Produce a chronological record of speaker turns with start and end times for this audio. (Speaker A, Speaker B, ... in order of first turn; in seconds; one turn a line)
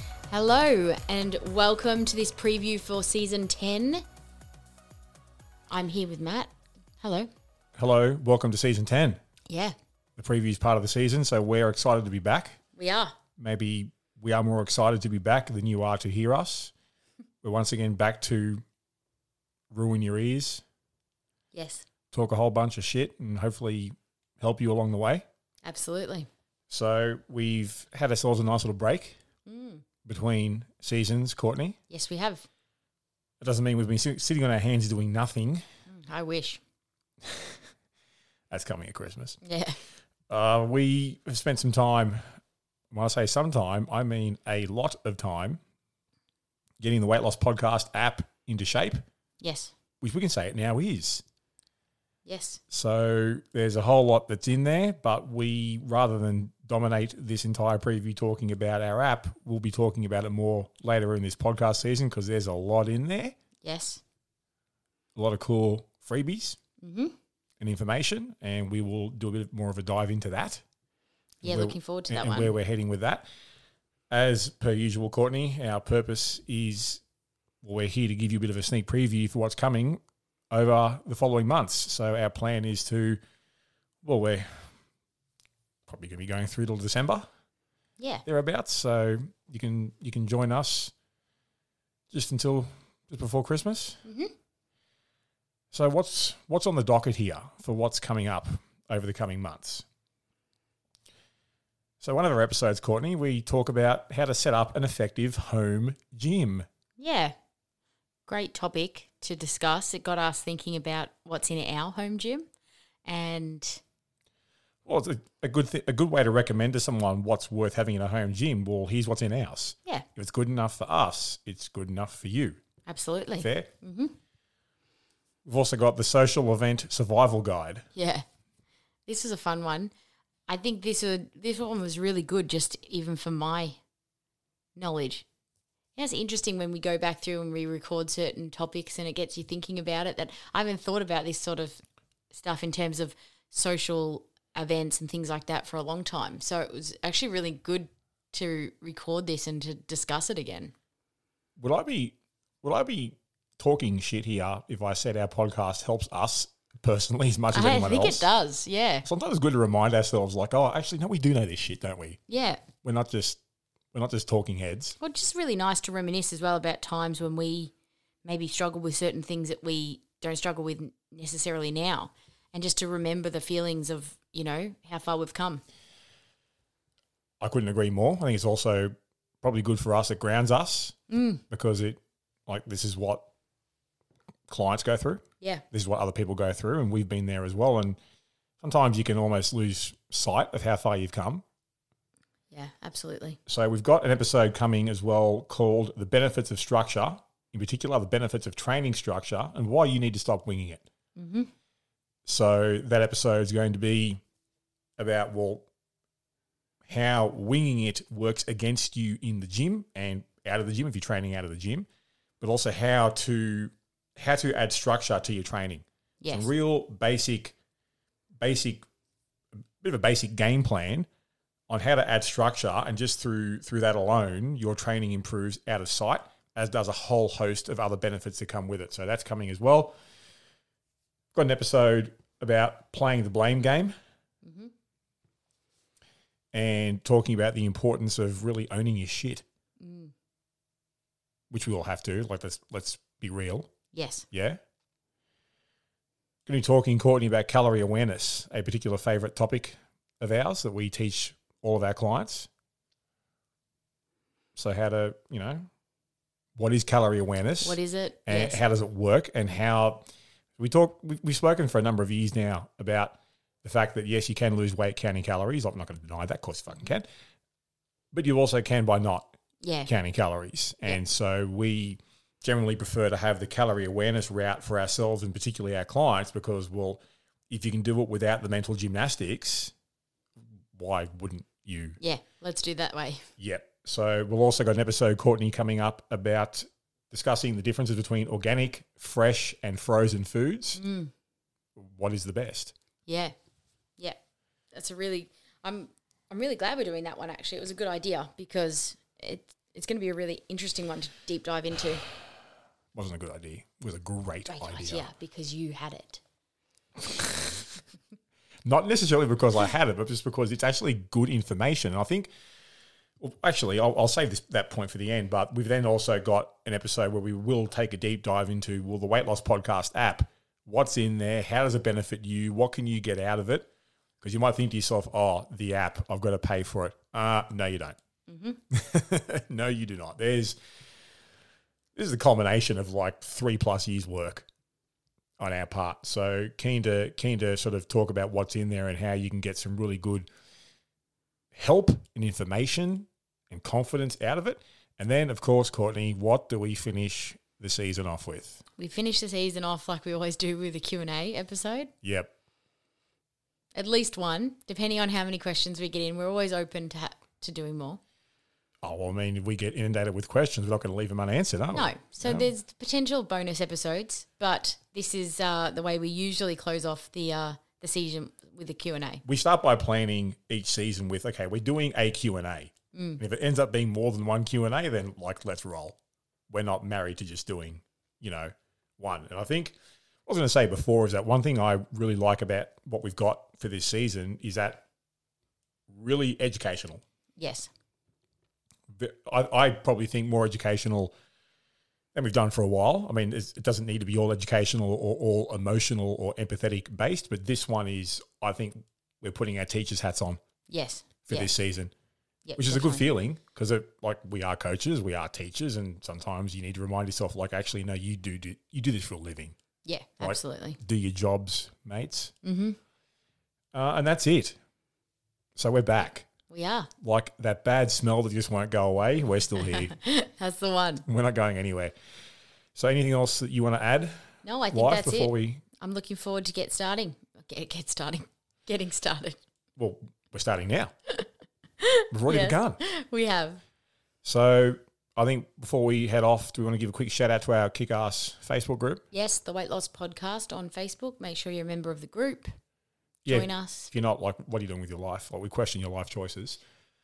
Speaker A: 0.3-4.0
Speaker A: 5.7-6.5
Speaker A: 7.0-7.3
Speaker B: 7.8-9.2
Speaker A: 9.5-9.8
Speaker B: 10.2-12.6
Speaker A: 12.8-13.1
Speaker B: 13.4-16.7
Speaker B: 17.4-18.6
Speaker B: 19.7-20.6
Speaker A: 21.5-21.8
Speaker B: 22.1-25.2
Speaker A: 25.6-26.3
Speaker B: 26.7-29.1
Speaker A: 29.4-29.8
Speaker B: 30.0-31.8
Speaker A: 31.9-32.5
Speaker B: 33.4-35.6
Speaker A: 35.9-36.6
Speaker B: 37.2-37.5
Speaker B: 38.5-39.4
Speaker A: 39.4-39.8
Speaker B: 40.3-42.2
Speaker B: 42.9-45.6
Speaker B: 46.8-49.0
Speaker A: 49.4-49.7
Speaker B: 50.0-51.2
Speaker A: 52.2-52.6
Speaker B: 52.7-63.4
Speaker A: 63.6-64.0
Speaker B: 65.2-66.6
Speaker A: 66.8-67.1
Speaker B: 67.6-70.6
Speaker B: 71.4-73.2
Speaker A: 71.4-72.5
Speaker B: 74.1-77.0
Speaker B: 77.6-80.0
Speaker B: 80.5-83.2
Speaker B: 84.0-84.7
Speaker B: 85.9-87.2
Speaker A: 88.0-88.2
Speaker B: 88.2-90.9
Speaker B: 92.1-94.0
Speaker A: 94.0-94.3
Speaker B: 95.7-99.8
Speaker B: 102.0-106.7
Speaker A: 107.0-107.3
Speaker A: 108.3-112.5
Speaker A: 113.0-113.8
Speaker B: 114.8-122.6
Speaker A: 122.9-124.1
Speaker B: 123.4-123.7
Speaker B: 125.4-127.8
Speaker A: 127.9-128.2
Speaker A: 129.1-129.9
Speaker A: 130.5-133.8
Speaker A: 134.8-135.2
Speaker A: 135.9-141.8
Speaker A: 142.3-150.7
Speaker B: 151.6-158.3
Speaker A: 157.5-159.0
Speaker B: 159.0-162.2
Speaker A: 162.3-162.6
Speaker B: 162.8-163.4
Speaker B: 163.9-165.0
Speaker A: 165.0-167.7
Speaker A: 168.2-175.6
Speaker B: 177.4-181.0
Speaker A: 181.1-181.4
Speaker B: 181.5-183.3
Speaker B: 184.5-188.0
Speaker B: 188.6-191.4
Speaker A: 192.5-193.4
Speaker B: 193.5-200.8
Speaker A: 201.2-201.5
Speaker B: 202.2-204.2
Speaker B: 205.0-205.7
Speaker B: 206.8-211.8
Speaker B: 212.4-217.5
Speaker A: 216.2-216.5
Speaker B: 218.4-218.8
Speaker B: 219.8-221.1
Speaker B: 221.7-229.9
Speaker B: 231.3-233.9
Speaker A: 234.4-234.7
Speaker B: 236.5-239.4
Speaker A: 239.8-240.1
Speaker B: 241.5-243.7
Speaker A: 243.9-244.2
Speaker B: 244.3-244.6
Speaker B: 246.4-252.5
Speaker B: 254.6-255.7
Speaker B: 256.6-267.1
Speaker A: 257.6-258.6
Speaker B: 268.1-269.3
Speaker A: 269.6-269.9
Speaker B: 269.9-279.7
Speaker B: 280.7-282.0
Speaker A: 282.0-283.3
Speaker B: 283.4-290.8
Speaker A: 290.8-291.1
Speaker B: 291.8-292.7
Speaker A: 293.1-293.3
Speaker A: 294.7-302.0
Speaker B: 302.9-305.1
Speaker A: 304.5-306.2
Speaker B: 307.0-307.6
Speaker B: 308.6-312.3
Speaker B: 313.2-323.7
Speaker B: 324.2-327.9
Speaker A: 328.3-328.6
Speaker B: 328.7-330.6
Speaker B: 331.9-334.5
Speaker B: 335.4-340.3
Speaker B: 341.5-348.6
Speaker A: 348.8-351.9
Speaker B: 352.0-352.3
Speaker A: 353.7-358.0
Speaker B: 358.8-362.5
Speaker A: 361.7-369.2
Speaker B: 369.2-375.9
Speaker A: 372.9-373.2
Speaker B: 376.5-384.8
Speaker B: 385.9-387.0
Speaker A: 387.4-387.7
Speaker B: 388.9-391.1
Speaker B: 392.1-400.4
Speaker A: 400.7-401.5
Speaker B: 401.2-401.9
Speaker A: 402.4-403.1
Speaker B: 402.6-409.5
Speaker A: 409.8-410.8
Speaker B: 410.2-412.3
Speaker A: 412.4-412.8
Speaker B: 413.7-414.6
Speaker B: 415.6-416.3
Speaker A: 416.5-416.9
Speaker B: 417.0-419.9
Speaker A: 419.7-421.0
Speaker B: 421.0-421.9
Speaker B: 422.7-425.6
Speaker A: 424.4-429.4
Speaker B: 429.8-430.9
Speaker A: 431.8-433.6
Speaker B: 432.1-432.8
Speaker B: 434.2-439.0
Speaker A: 439.1-442.5
Speaker B: 443.2-446.6
Speaker A: 443.3-443.9